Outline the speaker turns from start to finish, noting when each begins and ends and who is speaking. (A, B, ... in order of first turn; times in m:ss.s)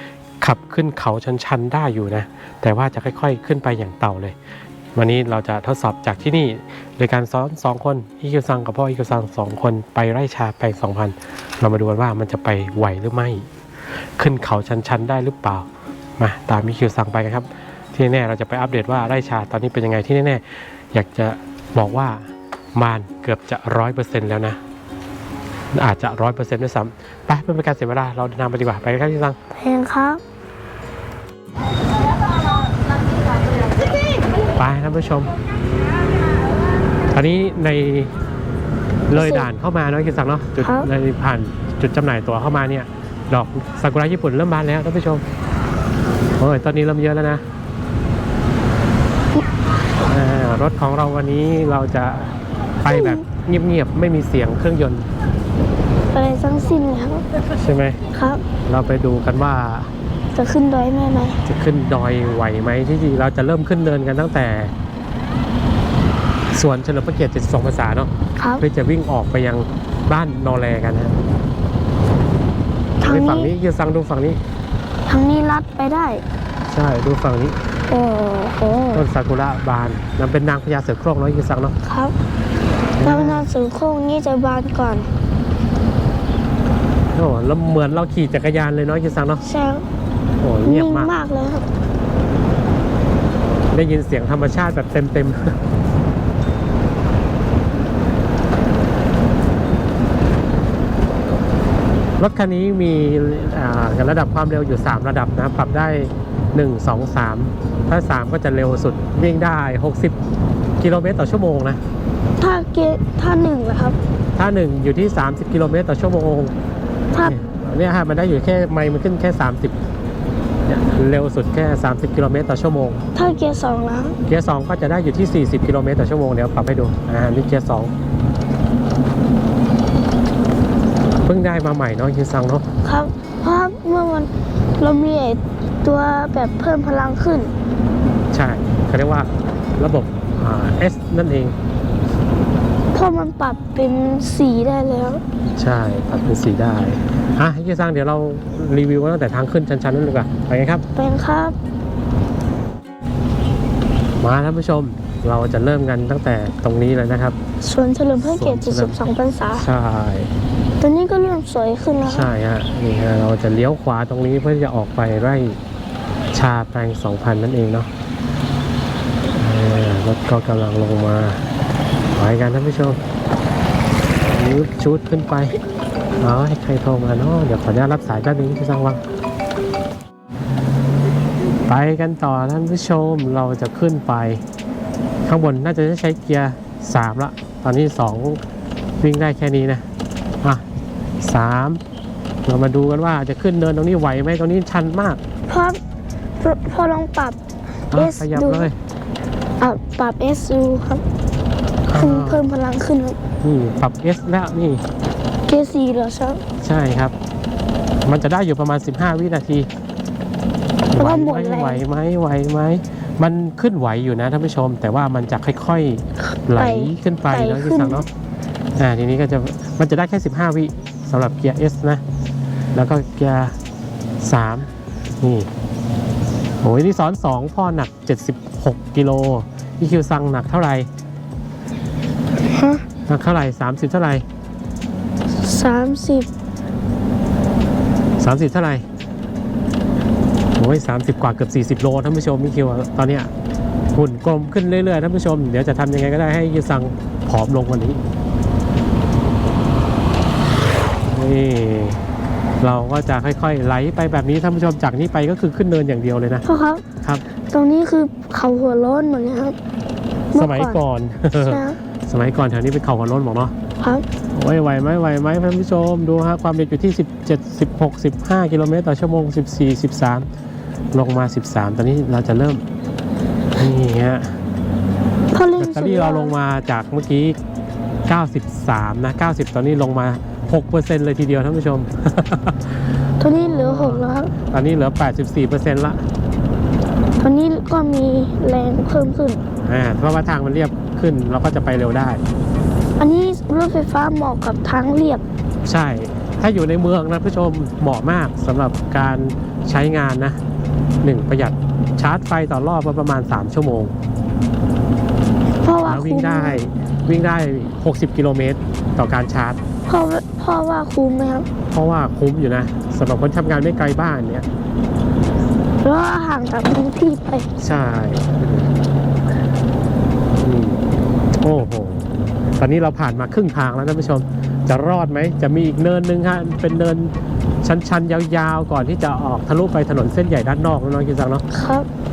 0:00.4-0:04.4 A
0:05.0-0:13.5 A
0:14.2-0:15.7 A
0:16.2-0:24.6 A
0:25.7-0:29.4 A
0:29.5-0:30.2 B
0:34.6-0:35.3 A
0:37.1-0:38.1 A
0:39.1-0:45.2 A
0:39.1-0:39.5 B
0:40.6-0:40.9 B
0:46.4-0:47.4 A
0:50.0-0:55.1 A
0:52.9-0:53.2 B
0:56.1-0:57.2 B
0:57.6-0:58.0 A
0:58.1-0:58.4 B
0:58.6-0:59.9 A
1:00.3-1:01.4 B
1:01.4-1:04.7 A
1:06.5-1:11.1 A
1:08.4-1:08.6 B
1:13.0-1:13.5 B
1:13.0-1:14.4 A
1:15.1-1:16.2 B
1:16.7-1:17.6 A
1:17.9-1:19.0 B
1:18.9-1:21.7 A
1:21.8-1:22.2 B
1:23.0-1:23.4 A
1:23.0-1:25.1 B
1:27.1-1:29.4 A
1:29.4-1:29.8 B
1:30.4-1:31.1 A
1:30.6-1:31.6 B
1:33.7-1:35.6 A
1:42.2-1:50.2 A
1:50.8-1:51.8 A
1:52.4-1:54.0 B
1:54.4-1:56.5 A
1:57.2-1:59.8 A
2:00.6-2:03.0 A
2:03.1-2:04.2 B
2:04.2-2:07.9 A
2:11.2-2:12.6 A
2:12.8-2:17.5 B
2:18.3-2:21.5 A
2:22.9-2:25.2 B
2:25.6-2:30.8 A
2:30.9-2:31.6 B
2:34.2-2:37.4 A
2:37.6-2:39.6 B
2:38.2-2:40.3 A
2:40.8-2:42.3 B
2:42.0-2:45.6 A
2:46.3-2:47.9 A
2:49.4-2:51.4 A
2:52.2-2:53.0 A
2:54.2-2:55.6 A
2:56.2-2:59.0 A
3:01.7-3:04.4 A
3:05.2-3:08.4 A
3:09.0-3:09.8 A
3:11.2-3:11.8 A
3:12.4-3:15.2 A
3:15.5-3:15.8 B
3:16.4-3:17.4 B
3:17.9-3:18.7 B
3:17.9-3:18.8 A
3:19.6-3:21.0 B
3:21.9-3:22.4 A
3:22.0-3:23.2 B
3:23.4-3:24.8 A
3:25.4-3:26.4 B
3:26.6-3:27.1 A
3:28.0-3:29.7 A
3:30.9-3:38.1 A
3:30.9-3:31.8 B
3:36.5-3:38.0 B
3:38.8-3:42.0 A
3:42.7-3:43.5 A
3:44.2-3:44.7 A
3:45.2-3:45.5 A
3:46.6-3:50.9 A
3:52.4-3:52.8 B
3:53.1-3:54.2 A
3:55.4-3:56.3 B
3:58.2-3:58.8 A
4:00.6-4:03.3 A
4:03.9-4:08.0 A
4:11.1-4:12.0 A
4:12.6-4:16.4 A
4:16.4-4:16.8 B
4:17.5-4:19.6 B
4:20.3-4:20.8 B
4:20.4-4:23.5 A
4:21.4-4:21.8 B
4:23.8-4:24.0 B
4:24.3-4:30.3 A
4:30.9-4:32.6 A
4:33.6-4:34.4 A
4:35.3-4:36.3 B
4:35.6-4:37.4 A
4:38.1-4:46.0 A
4:43.2-4:44.3 B
4:47.2-4:49.4 B
4:49.6-4:52.2 A
4:53.0-4:55.2 B
4:55.6-5:00.4 A
5:01.0-5:03.9 A
5:05.6-5:06.6 B
5:05.8-5:09.6 A
5:09.9-5:11.5 B
5:11.7-5:14.4 A
5:15.8-5:17.5 B
5:17.6-5:18.7 A
5:20.4-5:20.8 A
5:21.4-5:31.4 A
5:31.5-5:31.9 B